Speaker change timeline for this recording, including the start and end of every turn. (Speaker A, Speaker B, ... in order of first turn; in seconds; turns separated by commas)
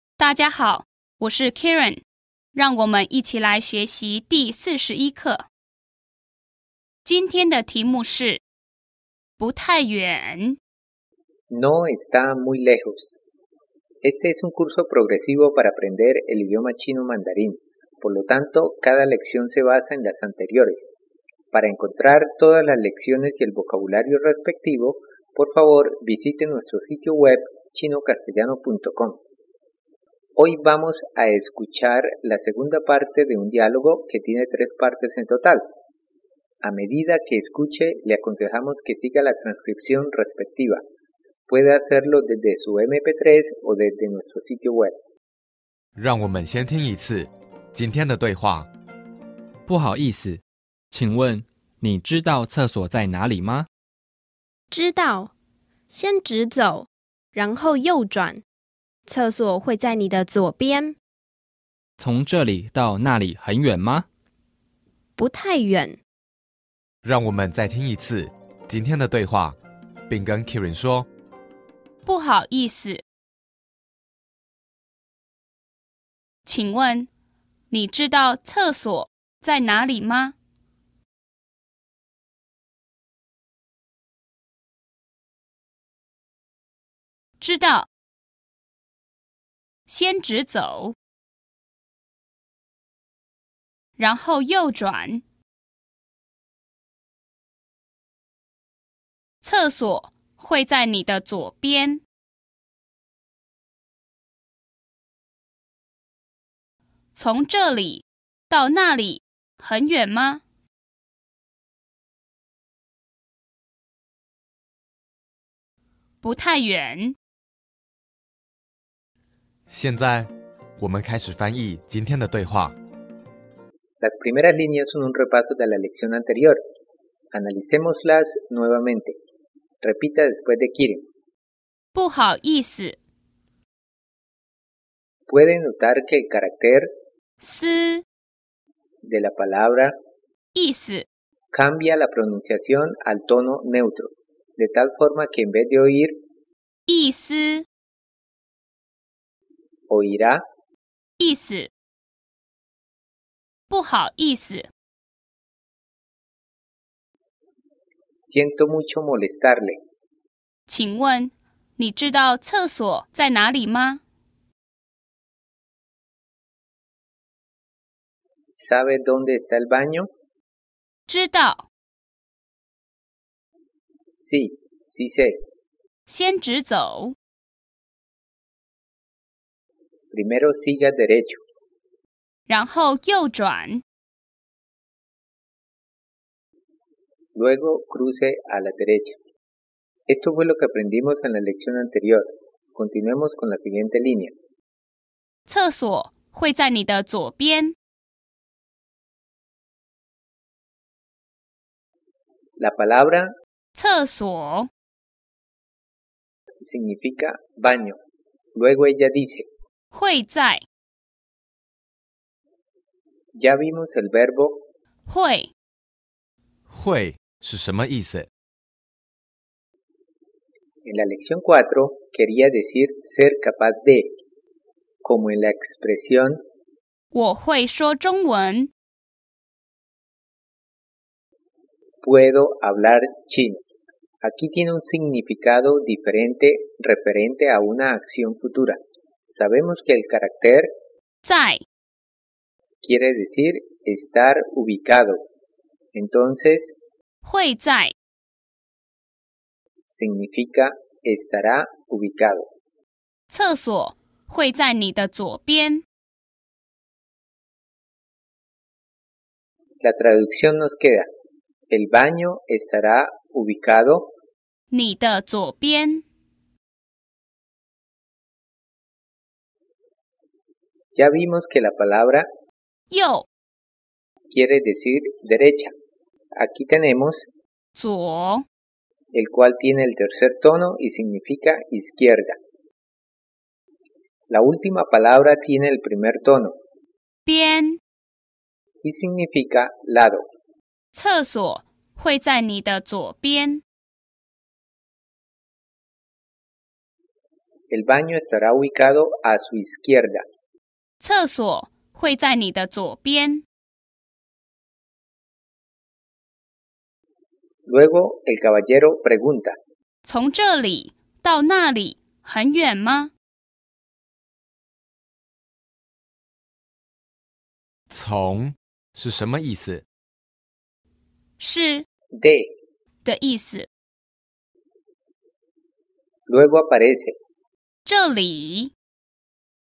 Speaker A: 0.2-2.0, Speaker A: 2.5-5.5, Speaker A: 7.0-8.4, Speaker A: 9.4-10.6, Speaker B: 11.5-13.2, Speaker B: 14.0-20.9, Speaker B: 21.5-29.2, Speaker B: 30.4-35.6, Speaker B: 36.6-40.8, Speaker B: 41.5-44.9, Speaker C: 46.0-48.7, Speaker D: 49.7-53.7, Speaker E: 54.7-55.3, Speaker E: 55.9-58.4, Speaker E: 59.1-61.0, Speaker D: 62.0-64.0, Speaker E: 65.2-66.0, Speaker C: 67.0-69.6, Speaker C: 70.1-71.1, Speaker A: 72.0-73.0, Speaker A: 76.4-77.1, Speaker A: 77.7-80.3, Speaker A: 87.4-87.9, Speaker A: 89.9-90.9, Speaker A: 94.0-95.2, Speaker A: 99.4-102.0, Speaker A: 107.1-110.4, Speaker A: 116.2-117.2, Speaker C: 119.7-122.7, Speaker B: 124.0-126.6, Speaker B: 127.3-129.2, Speaker B: 129.8-131.0, Speaker A: 131.9-133.0, Speaker B: 135.3-136.9, Speaker A: 137.4-138.0, Speaker B: 139.0-139.9, Speaker A: 140.5-141.1, Speaker B: 141.5-146.2, Speaker A: 146.9-147.6, Speaker B: 149.9-150.4, Speaker A: 151.2-151.7, Speaker A: 153.7-154.7, Speaker B: 158.3-159.8, Speaker A: 160.7-164.0, Speaker B: 168.5-170.1, Speaker A: 171.1-171.7, Speaker B: 174.2-175.4, Speaker A: 176.1-177.1, Speaker B: 180.1-181.4, Speaker A: 182.5-183.8, Speaker B: 187.3-189.2, Speaker B: 190.1-194.3, Speaker A: 195.5-197.7, Speaker B: 202.6-203.3, Speaker A: 203.7-204.7, Speaker B: 206.6-208.0, Speaker B: 208.5-209.4, Speaker A: 209.9-210.6, Speaker B: 213.3-214.6, Speaker A: 215.1-215.5, Speaker C: 216.7-218.3, Speaker B: 220.8-224.1, Speaker B: 225.0-226.4, Speaker A: 227.1-228.7, Speaker B: 232.0-233.6, Speaker B: 234.2-238.8, Speaker B: 239.3-240.7, Speaker A: 241.2-241.6, Speaker B: 242.8-245.2, Speaker B: 245.9-246.7, Speaker A: 247.2-247.9, Speaker B: 249.9-252.5, Speaker A: 253.3-255.8, Speaker B: 259.8-261.1, Speaker B: 261.7-264.1, Speaker A: 264.7-266.0, Speaker B: 270.9-272.3, Speaker A: 272.9-273.2, Speaker B: 274.3-275.7, Speaker B: 276.4-277.2, Speaker A: 277.7-278.4, Speaker B: 279.1-282.4, Speaker B: 284.3-286.6, Speaker A: 287.2-287.8, Speaker B: 288.8-290.2, Speaker A: 290.9-293.6, Speaker B: 297.7-300.2, Speaker A: 301.0-303.4, Speaker B: 307.7-309.6, Speaker A: 310.0-313.1, Speaker C: 317.9-319.8, Speaker A: 321.4-321.8, Speaker B: 322.1-322.5, Speaker A: 323.0-323.7, Speaker B: 326.3-327.1, Speaker A: 327.8-328.7